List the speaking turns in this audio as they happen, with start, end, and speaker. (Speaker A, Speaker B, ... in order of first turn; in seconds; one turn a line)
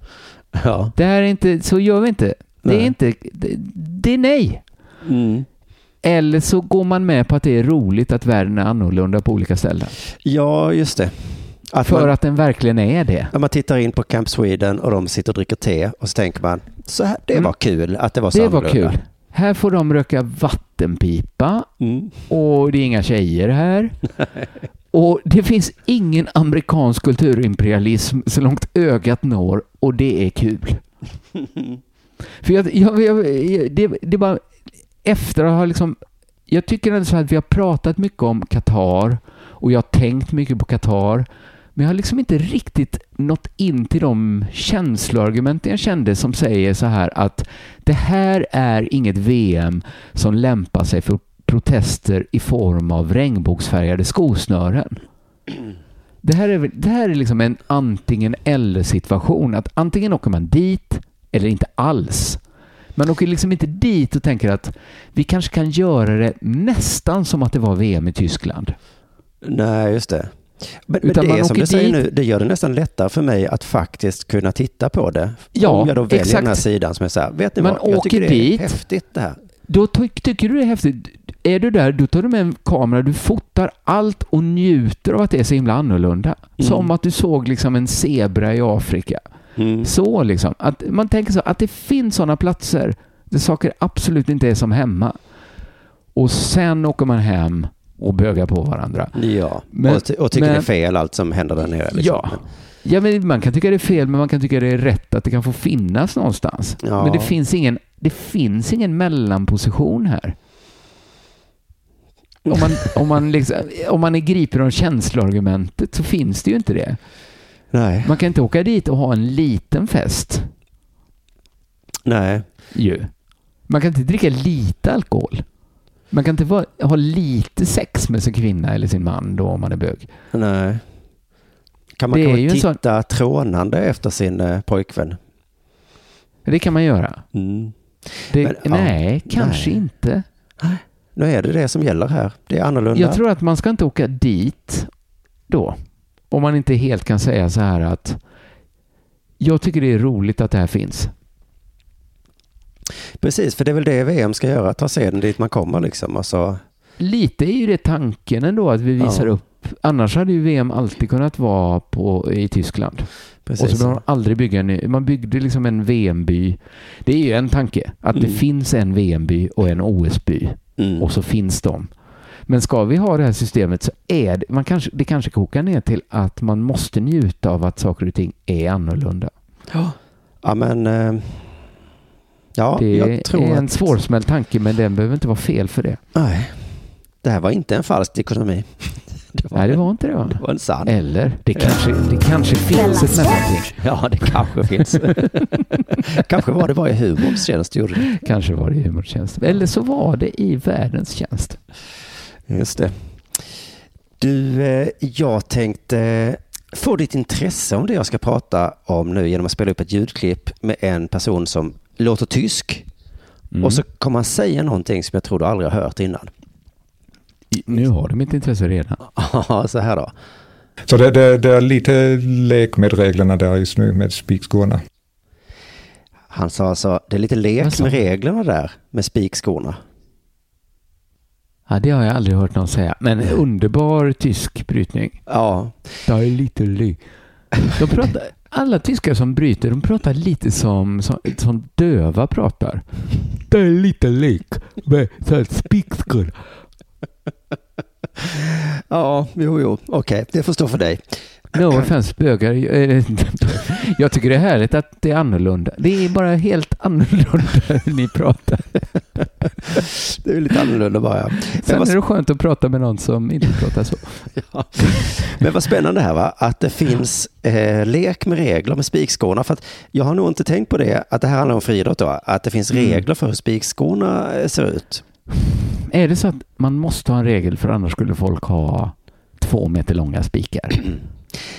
Speaker A: 0.6-0.9
Speaker B: 1.0-4.6
Speaker A: 2.6-2.9
Speaker A: 5.0-5.5
Speaker B: 6.0-10.0
Speaker A: 10.2-12.1
Speaker B: 11.8-13.3
Speaker A: 13.3-19.0
Speaker B: 18.3-21.7
Speaker A: 21.8-22.2
Speaker B: 22.3-24.0
Speaker B: 24.9-30.9
Speaker B: 32.4-34.4
Speaker B: 35.0-55.0
Speaker B: 56.2-62.4
Speaker B: 63.0-68.8
Speaker A: 69.4-79.4
Speaker B: 71.0-72.0
Speaker B: 75.5-76.6
Speaker B: 77.6-78.8
Speaker B: 79.7-89.2
Speaker A: 86.6-86.9
Speaker A: 89.6-89.9
Speaker B: 89.8-95.2
Speaker B: 96.2-99.2
Speaker A: 99.1-102.5
Speaker B: 99.7-100.7
Speaker B: 102.0-110.4
Speaker A: 106.8-107.3
Speaker A: 112.5-112.8
Speaker B: 112.5-117.0
Speaker A: 117.7-118.1
Speaker B: 118.0-120.5
Speaker A: 122.0-122.5
Speaker B: 122.7-123.1
Speaker B: 123.7-125.5
Speaker B: 126.1-130.1
Speaker A: 130.3-130.8
Speaker A: 132.0-135.2
Speaker B: 132.1-132.8
Speaker B: 136.5-137.2
Speaker A: 137.3-139.8
Speaker B: 138.3-140.2
Speaker A: 140.6-143.2
Speaker B: 142.9-144.9
Speaker B: 145.5-148.2
Speaker B: 149.4-151.1
Speaker A: 153.2-156.6
Speaker B: 157.0-171.9
Speaker A: 159.0-159.3
Speaker A: 163.5-164.0
Speaker A: 168.2-168.4
Speaker A: 170.8-171.1
Speaker B: 172.5-179.3
Speaker A: 179.7-181.6
Speaker A: 182.6-184.0
Speaker B: 182.8-186.0
Speaker A: 186.1-189.8
Speaker B: 189.5-195.2
Speaker A: 190.4-191.0
Speaker A: 191.6-191.8
Speaker A: 193.6-195.5
Speaker A: 196.1-198.1
Speaker B: 198.1-201.6
Speaker A: 202.5-203.5
Speaker A: 204.2-212.9
Speaker B: 213.5-213.8
Speaker A: 213.6-216.3
Speaker B: 217.5-219.0
Speaker A: 219.0-220.1
Speaker C: 220.9-224.8
Speaker A: 226.3-229.8
Speaker B: 227.6-228.0
Speaker B: 231.7-235.2
Speaker A: 235.3-235.9
Speaker B: 236.1-237.0
Speaker B: 237.7-246.4
Speaker A: 248.2-251.9
Speaker B: 251.5-258.8
Speaker A: 259.8-261.9
Speaker B: 261.6-264.3
Speaker A: 264.4-275.0
Speaker B: 264.9-265.2
Speaker B: 272.7-273.0
Speaker B: 275.4-280.9